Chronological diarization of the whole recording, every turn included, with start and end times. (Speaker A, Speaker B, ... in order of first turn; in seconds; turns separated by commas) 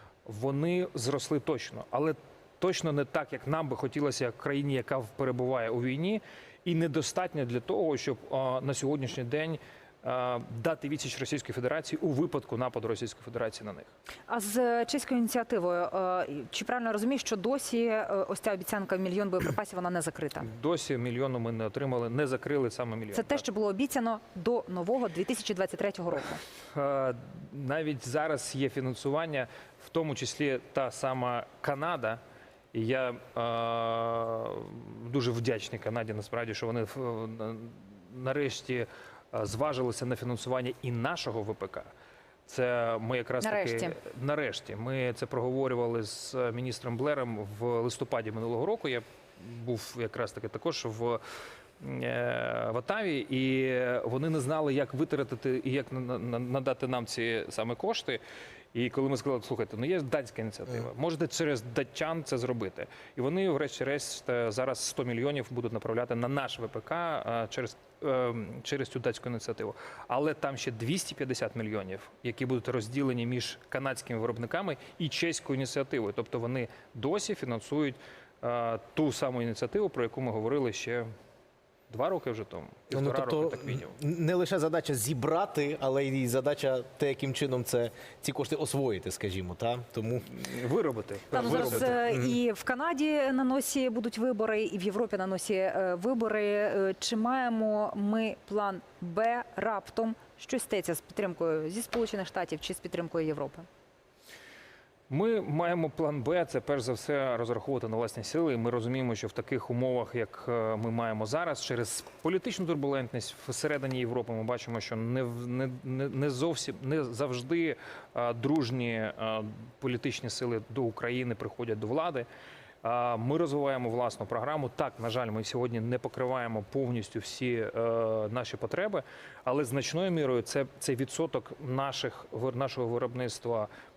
Speaker A: 0.2-13.9, Speaker B: 14.3-20.5, Speaker A: 20.4-23.4, Speaker B: 23.1-26.4, Speaker A: 26.7-32.2, Speaker A: 32.7-41.9, Speaker A: 42.5-51.2, Speaker B: 43.4-44.0, Speaker A: 51.8-58.2, Speaker A: 58.7-81.1, Speaker A: 81.9-84.0, Speaker C: 82.9-90.3, Speaker A: 90.3-92.0, Speaker B: 91.3-103.7, Speaker C: 91.3-92.4, Speaker A: 105.1-122.3, Speaker A: 122.8-133.7